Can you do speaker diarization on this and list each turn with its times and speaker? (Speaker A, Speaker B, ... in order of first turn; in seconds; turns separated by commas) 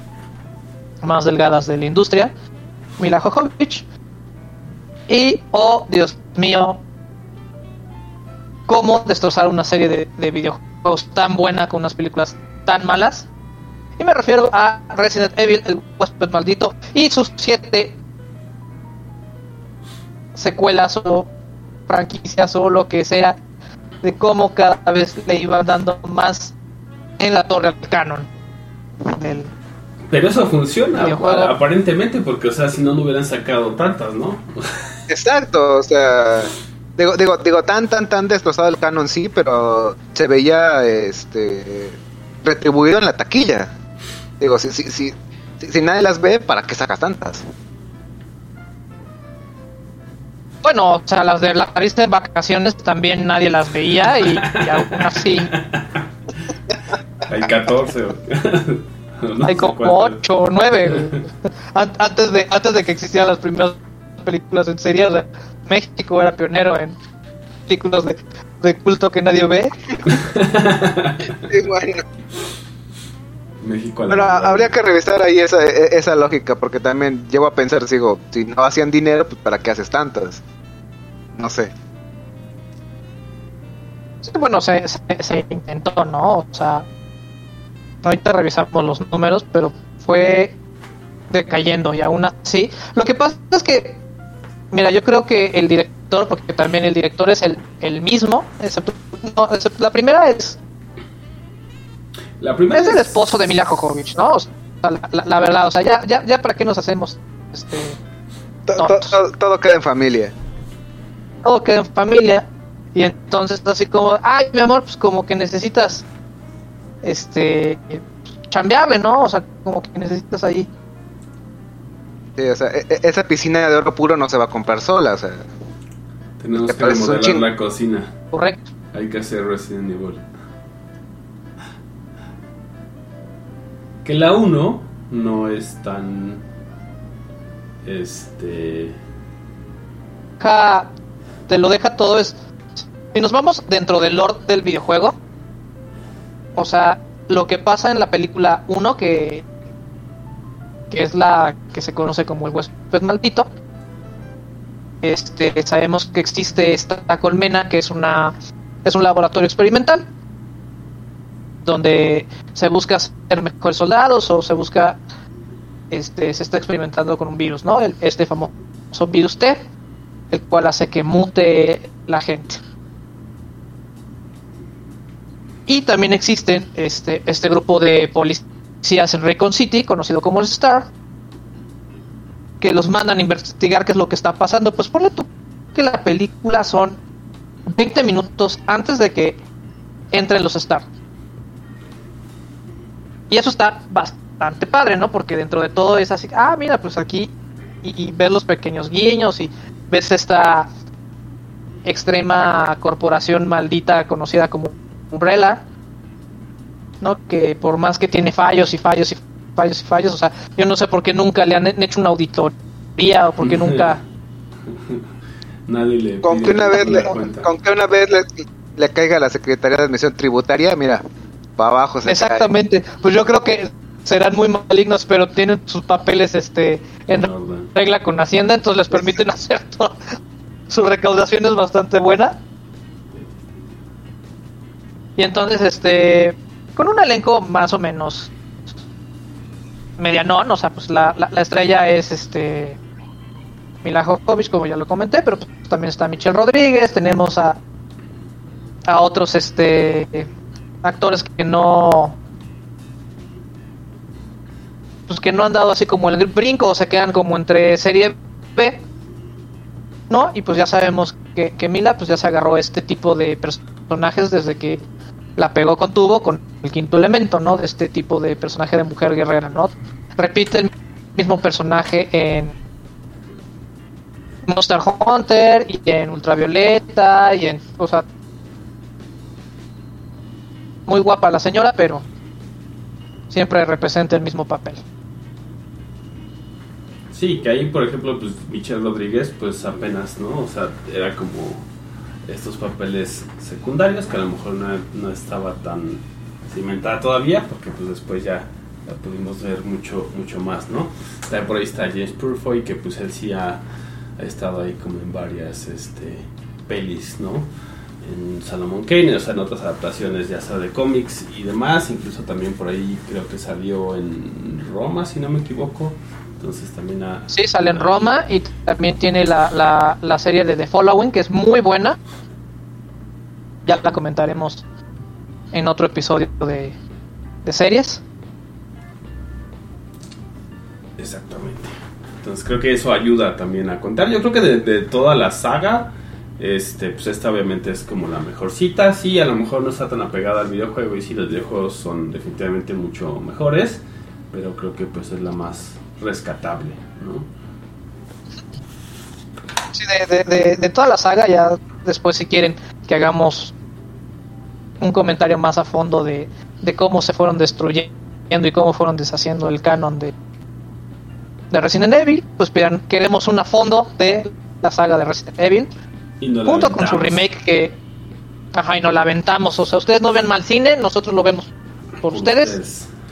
Speaker A: 1.0-2.3, Speaker A: 3.0-3.8, Speaker A: 5.1-6.8, Speaker A: 8.7-13.3, Speaker A: 14.0-18.0, Speaker A: 20.3-21.3, Speaker A: 21.9-23.4, Speaker A: 24.0-26.5, Speaker A: 27.2-28.3, Speaker A: 29.0-29.5, Speaker B: 30.1-34.9, Speaker A: 30.9-31.5, Speaker C: 35.1-43.7, Speaker C: 44.4-47.4, Speaker A: 50.6-55.5, Speaker B: 54.2-56.1, Speaker B: 57.3-60.2, Speaker A: 59.4-67.0, Speaker A: 67.7-69.8, Speaker B: 70.0-71.5, Speaker C: 71.5-72.0, Speaker B: 73.6-74.8, Speaker C: 74.1-80.4, Speaker C: 81.3-81.7, Speaker A: 84.2-86.9, Speaker A: 88.0-90.5, Speaker A: 91.3-94.0, Speaker A: 94.7-100.6, Speaker B: 102.4-103.4, Speaker A: 102.7-108.0, Speaker C: 108.7-110.3, Speaker A: 108.8-109.2, Speaker A: 111.4-116.0, Speaker A: 117.0-120.7, Speaker C: 122.4-125.5, Speaker B: 126.4-128.1, Speaker C: 126.7-127.4, Speaker A: 128.3-128.7, Speaker B: 128.9-130.2, Speaker B: 134.0-136.4, Speaker B: 137.8-139.0, Speaker A: 140.4-140.9, Speaker A: 141.5-142.3, Speaker A: 143.1-145.2, Speaker A: 146.6-149.4, Speaker A: 150.9-153.5, Speaker A: 155.0-160.1, Speaker A: 161.6-165.0, Speaker A: 165.9-169.6, Speaker A: 170.3-172.6, Speaker A: 175.7-180.9, Speaker A: 182.6-187.0, Speaker A: 187.7-189.4, Speaker A: 190.1-190.8, Speaker A: 193.3-197.3, Speaker A: 197.8-200.7, Speaker A: 201.8-205.6, Speaker A: 207.0-214.0, Speaker B: 213.4-214.0, Speaker B: 214.7-215.1, Speaker B: 215.7-217.5, Speaker C: 216.2-221.0, Speaker C: 221.6-222.5, Speaker A: 222.0-230.0, Speaker B: 227.1-227.7, Speaker A: 230.7-232.4, Speaker A: 235.2-238.3, Speaker A: 240.0-242.8, Speaker A: 243.8-247.6, Speaker A: 248.9-250.3, Speaker A: 250.8-252.2, Speaker A: 255.1-258.8, Speaker A: 260.1-264.8, Speaker A: 265.4-272.5, Speaker A: 274.4-278.1, Speaker A: 280.9-282.0, Speaker A: 283.3-284.8, Speaker B: 287.1-291.6, Speaker B: 292.2-303.6, Speaker B: 304.2-307.5, Speaker B: 308.0-318.1, Speaker A: 317.3-322.0, Speaker A: 323.6-324.6, Speaker A: 325.5-326.8, Speaker A: 327.4-328.0, Speaker B: 331.0-347.3, Speaker A: 349.7-353.5, Speaker A: 354.8-360.1, Speaker A: 361.5-365.7, Speaker B: 366.2-367.2, Speaker A: 366.4-367.8, Speaker A: 368.5-371.5, Speaker A: 372.0-372.6, Speaker B: 372.0-372.9